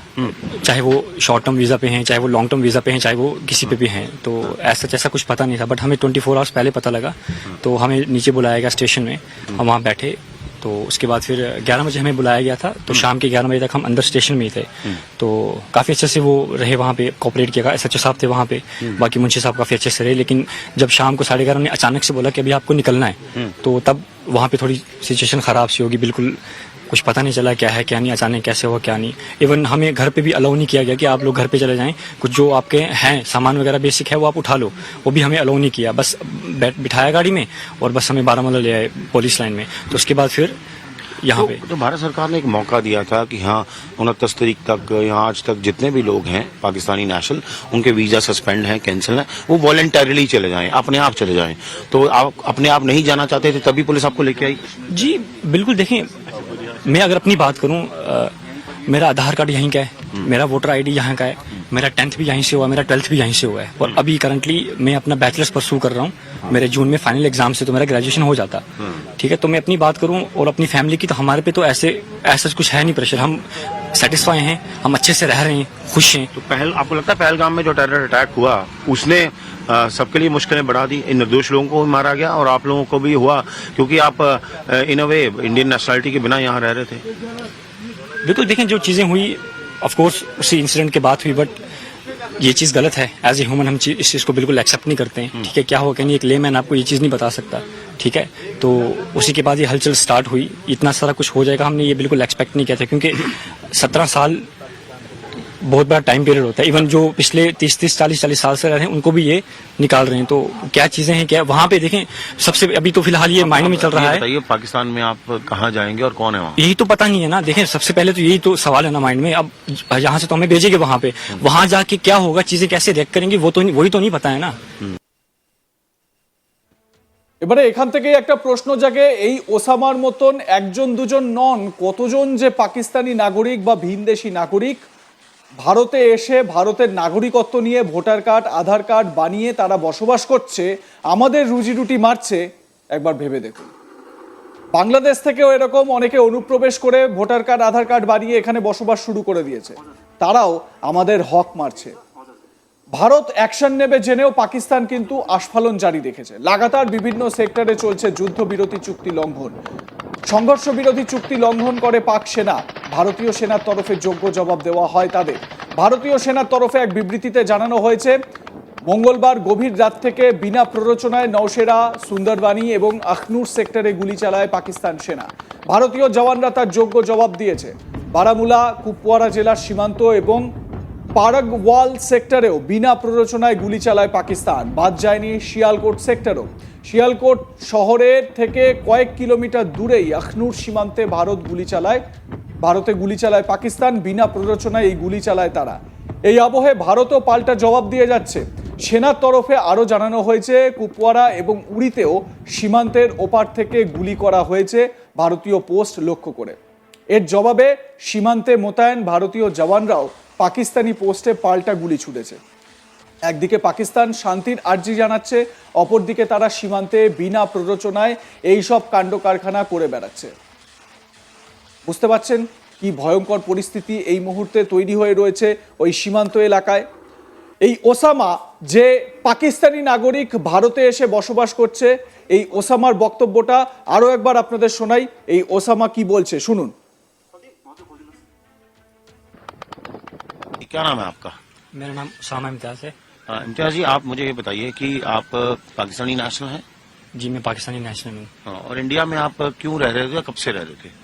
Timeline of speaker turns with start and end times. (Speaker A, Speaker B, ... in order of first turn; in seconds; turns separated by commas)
Speaker A: 0.5-26.4, Speaker A: 26.9-40.6, Speaker A: 41.2-41.6, Speaker B: 41.3-54.7, Speaker A: 54.9-58.3, Speaker A: 58.8-68.6, Speaker A: 69.2-76.3, Speaker B: 76.3-87.0, Speaker A: 88.2-91.6, Speaker A: 92.4-104.5, Speaker A: 105.6-114.2, Speaker B: 113.4-116.6, Speaker A: 116.6-124.6, Speaker C: 127.4-134.8, Speaker C: 135.6-142.4, Speaker C: 142.9-143.7, Speaker C: 144.7-151.9, Speaker C: 152.9-159.5, Speaker C: 160.3-168.2, Speaker C: 168.9-180.4, Speaker C: 181.1-192.0, Speaker C: 192.6-206.6, Speaker C: 207.1-212.4, Speaker C: 213.3-220.3, Speaker C: 221.8-226.8, Speaker C: 227.6-236.7, Speaker B: 240.6-241.4, Speaker A: 241.7-242.9, Speaker B: 243.3-246.6, Speaker A: 247.1-248.3, Speaker B: 248.4-250.9